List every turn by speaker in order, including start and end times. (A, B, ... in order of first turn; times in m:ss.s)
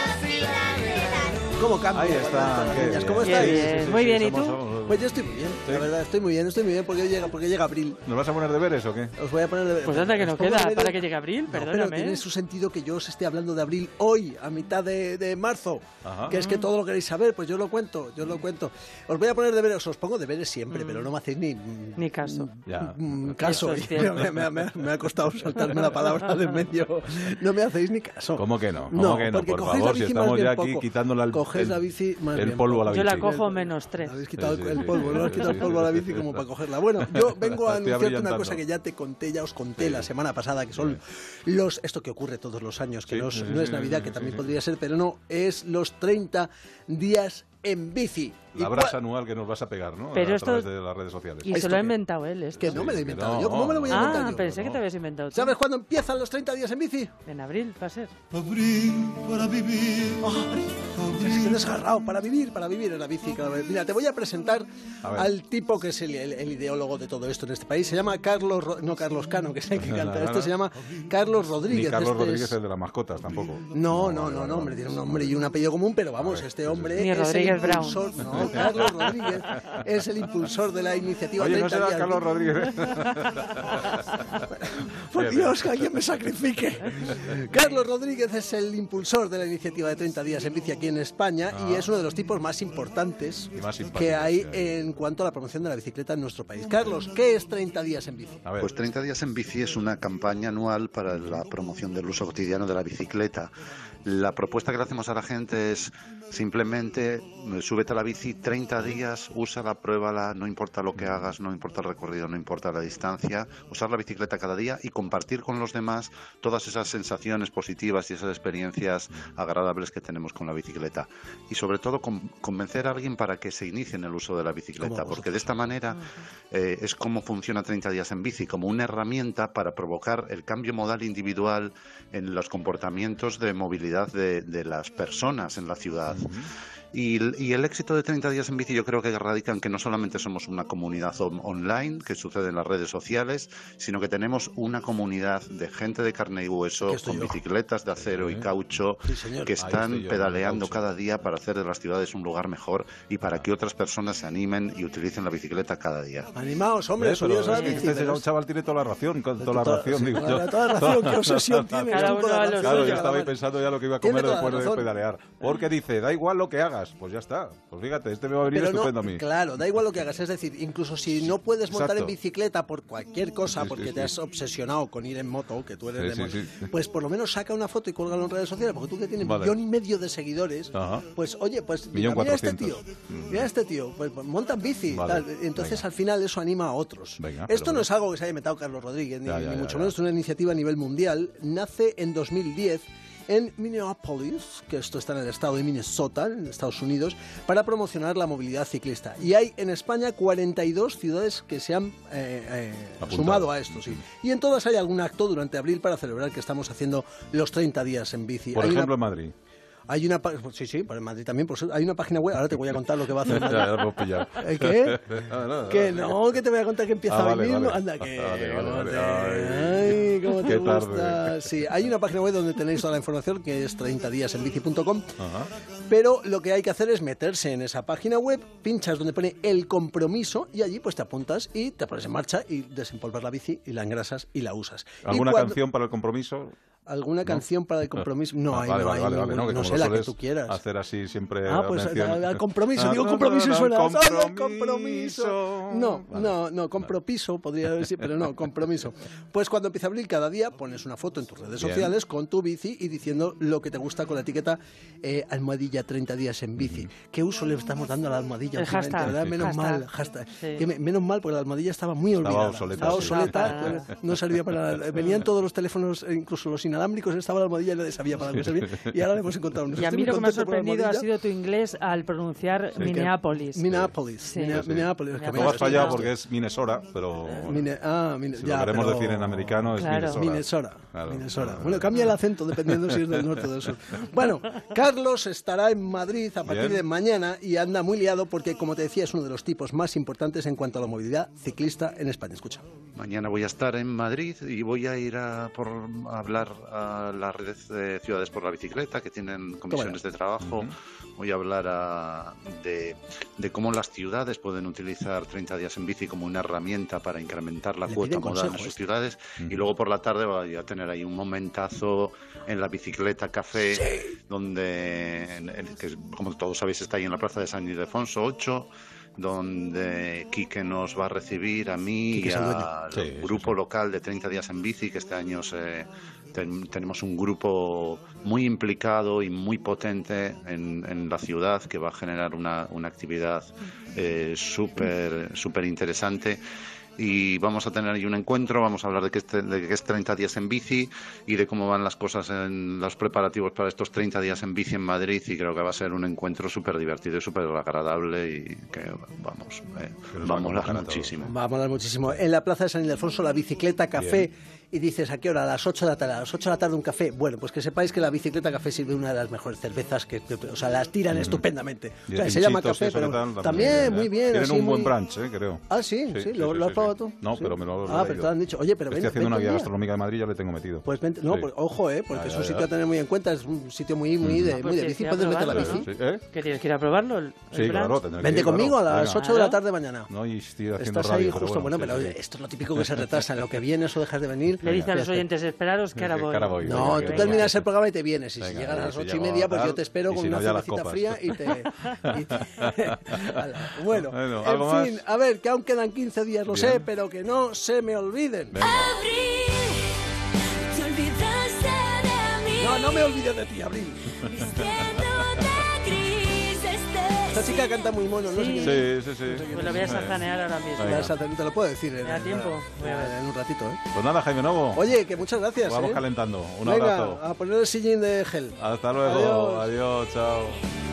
0:00.9-0:03.9 A
0:01.9-0:05.9 B
0:03.2-0:04.6 C
0:04.8-0:08.0 A
0:08.0-0:09.1 B
0:09.2-0:49.0 A
0:09.8-0:12.2 C
0:16.0-0:16.4 B
0:22.0-0:22.5 C
0:22.7-0:23.5 B
0:23.4-0:24.2 C
0:28.4-0:31.8 B
0:32.4-0:33.3 B
0:32.9-0:34.2 C
0:34.4-0:36.4 B
0:37.0-0:38.6 B
0:39.8-0:40.1 B
0:40.7-0:41.0 B
0:43.1-0:44.5 B
0:48.6-0:51.6 B
0:50.1-0:50.7 C
0:51.4-0:52.8 C
0:51.5-0:52.0 A
0:52.6-0:54.5 A
0:52.6-0:54.8 B
0:53.9-0:55.6 C
0:55.3-0:57.1 A
0:57.3-0:58.1 C
1:00.0-1:12.6 A
1:05.0-1:05.3 B
1:09.8-1:10.5 B
1:11.7-1:15.3 B
1:13.7-1:22.3 A
1:16.2-1:17.0 B
1:17.0-1:18.1 C
1:18.3-1:19.4 B
1:21.4-1:24.2 B
1:24.6-1:38.5 A
1:25.2-1:25.9 B
1:31.5-1:31.9 B
1:33.6-1:34.6 B
1:38.4-1:38.7 B
1:38.6-1:43.5 D
1:44.0-2:16.3 D
2:04.8-2:05.5 A
2:06.0-2:06.2 C
2:16.1-2:16.5 B
2:16.9-2:36.3 D
2:26.8-2:27.4 A
2:28.1-2:28.5 B
2:29.0-2:29.5 A
2:29.6-2:30.8 B
2:36.4-2:38.3 A
2:37.0-2:49.2 B
2:37.5-2:37.8 C
2:39.4-2:43.4 A
2:41.9-2:43.0 C
2:44.0-2:44.9 A
2:48.5-3:29.0 A
2:51.7-2:52.1 B
2:53.5-2:54.1 B
2:56.0-2:56.7 B
2:59.2-2:59.6 B
3:00.7-3:01.1 B
3:01.9-3:03.5 B
3:04.9-3:05.8 B
3:07.2-3:07.9 B
3:09.3-3:09.9 B
3:23.0-3:24.0 B
3:28.5-3:29.3 B
3:29.9-3:35.0 A
3:33.2-3:36.2 B
3:35.6-3:45.1 A
3:37.1-3:41.6 B
3:45.2-3:45.5 B
3:45.9-3:55.6 A
3:55.0-3:56.5 B
3:56.9-4:00.6 A
3:58.0-4:06.3 B
4:01.5-4:31.1 A
4:11.6-4:11.9 B
4:16.6-4:16.9 B
4:18.6-4:19.9 C
4:19.0-4:19.5 B
4:20.4-4:20.7 C
4:22.2-4:23.8 B
4:22.9-4:23.9 C
4:29.8-4:33.7 C
4:32.8-4:36.1 A
4:33.7-4:34.0 B
4:34.2-4:34.6 C
4:34.5-4:37.7 B
4:35.2-4:36.0 C
4:37.3-4:52.6 A
4:38.4-4:41.9 B
4:39.8-4:40.2 C
4:42.7-4:43.1 B
4:46.4-4:46.8 B
4:53.0-5:36.4 D
4:59.7-5:00.0 A
5:00.4-5:00.7 B
5:07.9-5:08.8 A
5:13.7-5:14.1 A
5:22.1-5:22.7 A
5:22.9-5:23.5 B
5:37.0-5:51.3 D
5:50.1-5:51.1 B
5:51.2-6:05.0 A
5:54.0-5:54.3 B
6:01.1-6:01.4 B
6:02.1-6:08.3 B
6:05.7-6:09.7 A
6:08.9-6:11.5 B
6:10.8-6:15.9 A
6:12.1-6:12.7 B
6:14.2-6:14.6 B
6:14.5-6:18.0 C
6:15.5-6:16.2 B
6:17.5-6:19.3 B
6:18.2-6:20.1 A
6:19.2-6:19.6 C
6:20.1-6:22.2 B
6:20.7-6:25.2 A
6:22.8-6:23.2 B
6:24.6-6:27.4 C
6:24.6-6:24.9 B
6:26.0-6:27.7 B
6:26.6-6:38.6 A
6:28.4-6:33.3 B
6:33.9-6:35.0 B
6:36.5-6:36.8 B
6:38.5-6:39.0 B
6:38.6-6:39.9 E
6:40.7-6:43.1 E
6:42.6-6:44.1 A
6:44.2-6:47.9 E
6:47.3-6:50.2 A
6:48.3-6:48.9 C
6:48.6-6:50.2 B
6:49.4-6:51.1 C
6:50.8-6:51.1 B
6:50.8-6:53.8 A
6:52.0-6:53.2 C
6:53.9-6:54.9 B
6:54.7-6:56.0 A
6:55.6-6:57.2 B
6:56.6-6:59.7 A
6:58.6-7:00.6 B